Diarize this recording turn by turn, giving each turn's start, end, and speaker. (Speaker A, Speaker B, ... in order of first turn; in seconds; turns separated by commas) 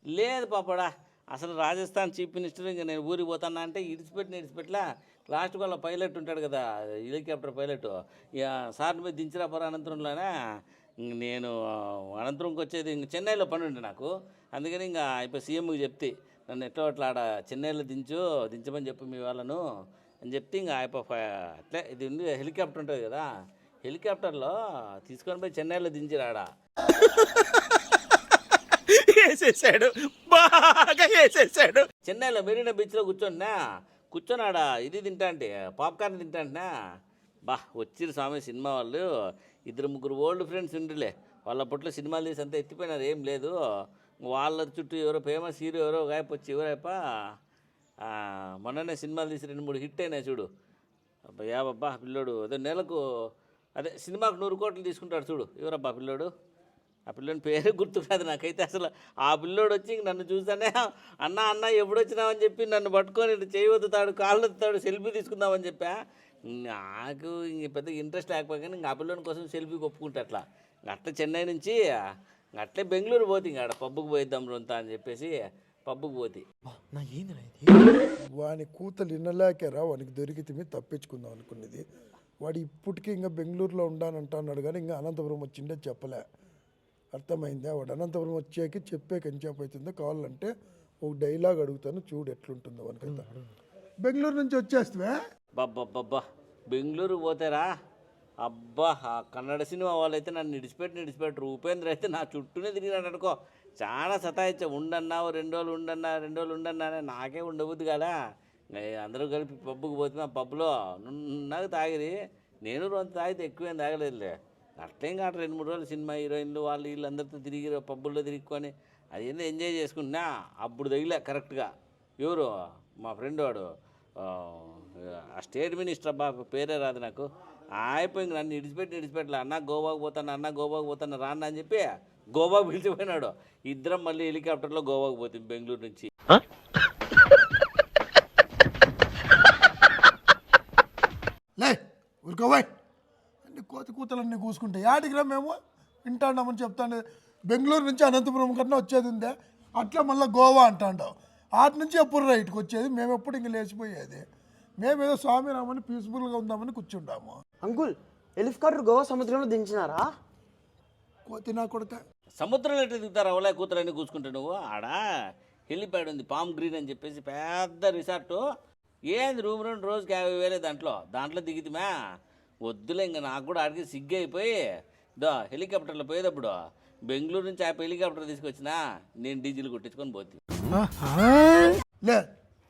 Speaker A: 0.1-10.3, Speaker A: 11.0-19.6, Speaker A: 20.2-23.3, Speaker A: 23.8-33.5, Speaker A: 34.1-36.7, Speaker A: 37.5-39.1, Speaker A: 39.7-43.5, Speaker A: 44.3-47.0, Speaker A: 48.0-50.5, Speaker A: 51.3-53.0, Speaker A: 53.8-56.3, Speaker A: 57.1-71.8, Speaker A: 72.6-75.3, Speaker A: 75.9-76.4, Speaker B: 76.7-78.0, Speaker C: 78.4-81.8, Speaker C: 82.4-86.2, Speaker C: 87.1-90.5, Speaker C: 91.0-93.3, Speaker C: 94.0-95.2, Speaker A: 95.5-97.7, Speaker A: 98.4-108.1, Speaker A: 108.7-112.1, Speaker A: 112.7-122.5, Speaker A: 123.0-123.7, Speaker A: 124.2-136.1, Speaker C: 141.6-142.7, Speaker C: 143.4-154.2, Speaker C: 154.8-157.3, Speaker B: 157.6-160.1, Speaker C: 161.3-162.0, Speaker A: 162.4-165.0, Speaker A: 165.7-168.4, Speaker A: 169.1-171.9, Speaker A: 172.6-174.6, Speaker A: 175.2-176.5, Speaker A: 177.1-180.4, Speaker C: 180.7-182.2